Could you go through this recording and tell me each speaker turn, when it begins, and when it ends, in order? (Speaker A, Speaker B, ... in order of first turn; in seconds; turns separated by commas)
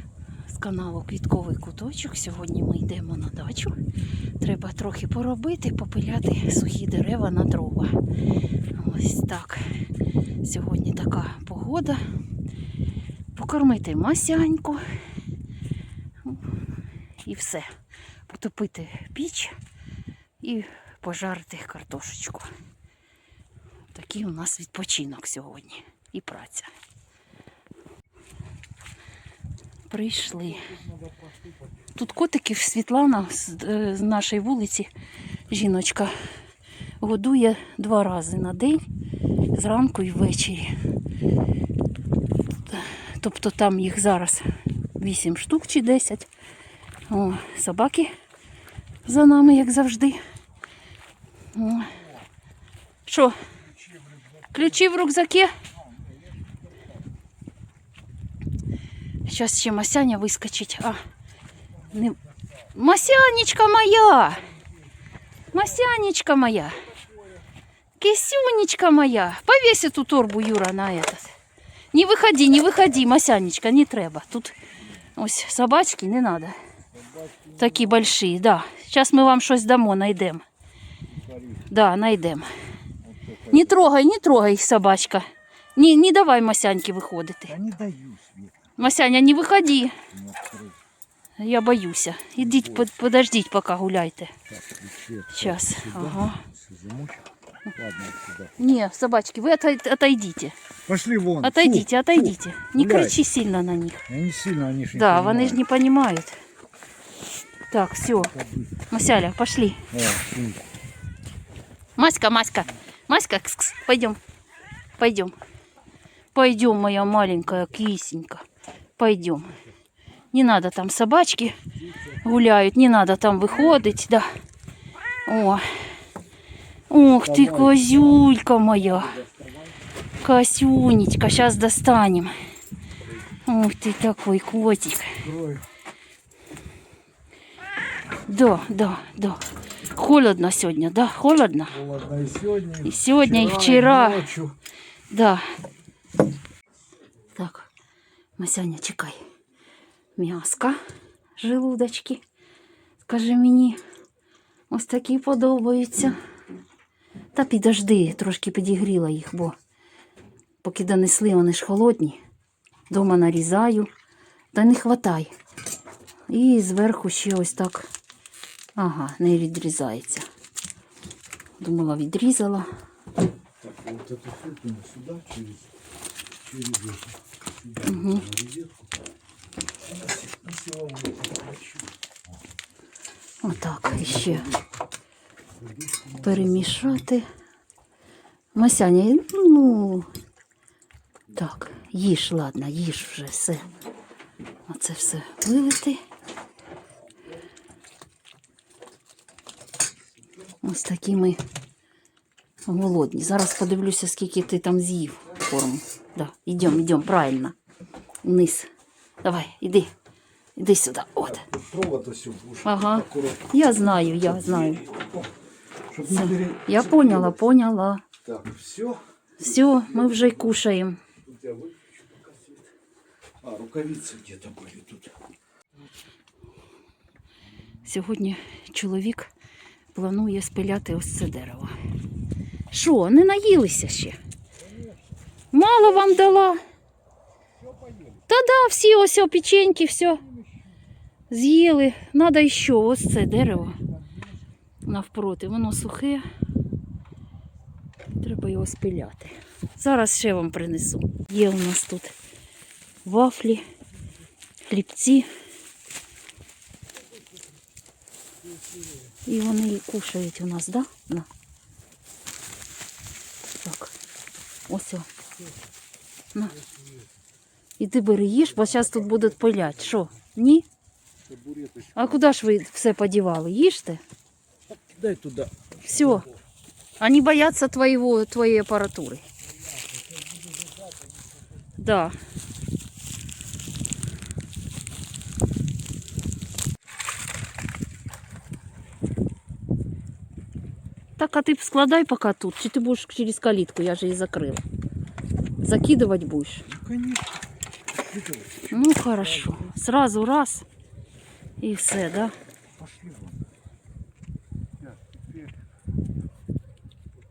Speaker A: 0.5-3.8, Speaker A: 4.4-8.0, Speaker A: 8.8-9.6, Speaker A: 10.4-12.0, Speaker A: 13.3-14.8, Speaker A: 17.2-17.7, Speaker A: 18.3-19.6, Speaker A: 20.4-22.5, Speaker A: 23.9-26.7, Speaker A: 29.9-30.7, Speaker B: 30.5-31.7, Speaker A: 31.9-34.9, Speaker A: 35.5-36.1, Speaker A: 37.0-38.8, Speaker A: 39.5-40.8, Speaker A: 42.7-46.3, Speaker A: 47.1-48.1, Speaker A: 49.0-50.2, Speaker A: 51.5-52.0, Speaker A: 53.1-53.4, Speaker B: 53.8-54.5, Speaker A: 54.5-55.5, Speaker B: 56.0-56.5, Speaker A: 59.3-61.0, Speaker A: 61.9-62.2, Speaker A: 62.7-64.5, Speaker A: 65.5-66.9, Speaker B: 67.1-67.4, Speaker A: 68.0-71.3, Speaker A: 71.9-74.5, Speaker A: 75.2-76.6, Speaker B: 76.9-78.1, Speaker A: 77.6-80.4, Speaker B: 81.1-81.7, Speaker A: 81.7-82.5, Speaker B: 83.0-83.9, Speaker A: 83.5-85.2, Speaker A: 85.8-87.6, Speaker B: 87.5-88.8, Speaker A: 88.8-90.0, Speaker B: 90.1-90.8, Speaker A: 91.4-94.3, Speaker B: 92.4-92.9, Speaker B: 94.5-98.5, Speaker A: 95.3-96.4, Speaker A: 98.6-100.6, Speaker B: 100.9-103.2, Speaker A: 101.4-104.1, Speaker B: 104.1-105.6, Speaker A: 104.9-106.4, Speaker A: 107.7-108.4, Speaker B: 108.3-108.8, Speaker A: 108.9-109.9, Speaker B: 109.9-110.7, Speaker A: 112.0-114.2, Speaker A: 115.0-115.3, Speaker A: 116.3-118.5, Speaker A: 119.0-119.6, Speaker A: 120.3-121.6, Speaker B: 121.8-122.2, Speaker A: 122.2-124.3, Speaker A: 125.3-125.7, Speaker A: 126.9-129.2, Speaker B: 127.3-128.2, Speaker B: 128.8-129.7, Speaker A: 130.2-132.3, Speaker A: 133.4-135.2, Speaker B: 135.2-135.7, Speaker A: 138.2-141.8, Speaker B: 141.7-144.6, Speaker A: 142.8-144.3, Speaker A: 145.1-145.5, Speaker A: 147.3-147.7, Speaker A: 148.4-149.2, Speaker A: 150.2-150.8, Speaker A: 151.4-152.2, Speaker A: 153.0-153.8, Speaker A: 154.7-156.2, Speaker A: 157.3-159.6, Speaker A: 160.6-162.2, Speaker A: 162.9-163.9, Speaker A: 164.5-165.3, Speaker A: 166.3-167.9, Speaker A: 168.8-170.3, Speaker A: 171.6-172.7, Speaker B: 173.6-175.7, Speaker B: 176.3-178.9, Speaker A: 177.8-178.3, Speaker B: 179.8-181.9, Speaker A: 183.4-184.5, Speaker B: 183.8-184.6, Speaker B: 185.6-187.0, Speaker A: 186.2-187.2, Speaker A: 188.6-190.1, Speaker A: 191.3-193.7, Speaker A: 194.7-196.0, Speaker A: 200.6-201.4, Speaker A: 202.7-207.6, Speaker A: 208.2-208.7, Speaker A: 209.2-209.9, Speaker A: 210.6-211.5, Speaker B: 211.4-215.3, Speaker A: 212.6-214.9, Speaker B: 215.9-217.4, Speaker A: 216.0-218.0, Speaker B: 218.2-220.5, Speaker A: 219.4-221.0, Speaker B: 221.2-222.7, Speaker B: 223.4-225.2, Speaker A: 227.8-229.3, Speaker A: 229.9-231.8, Speaker A: 232.7-234.2, Speaker B: 234.7-235.0, Speaker A: 235.5-236.6, Speaker B: 237.6-238.2, Speaker A: 238.3-240.2, Speaker B: 240.3-240.6, Speaker A: 241.3-243.8, Speaker A: 244.8-246.2, Speaker A: 248.2-252.2, Speaker A: 253.1-253.6, Speaker A: 254.7-255.3, Speaker A: 259.2-261.3, Speaker A: 263.6-263.9, Speaker A: 264.7-265.1, Speaker B: 266.7-267.0, Speaker A: 267.8-270.7, Speaker B: 268.7-269.8, Speaker B: 271.3-272.3, Speaker A: 271.9-274.0, Speaker B: 274.7-276.3, Speaker A: 275.9-276.3, Speaker A: 277.0-279.2, Speaker B: 279.7-280.7, Speaker A: 281.8-282.2, Speaker A: 291.2-294.6, Speaker A: 295.6-296.7, Speaker B: 296.7-297.4, Speaker B: 297.9-299.7, Speaker A: 298.7-300.7, Speaker A: 301.6-302.3, Speaker B: 302.8-303.5, Speaker B: 304.9-305.5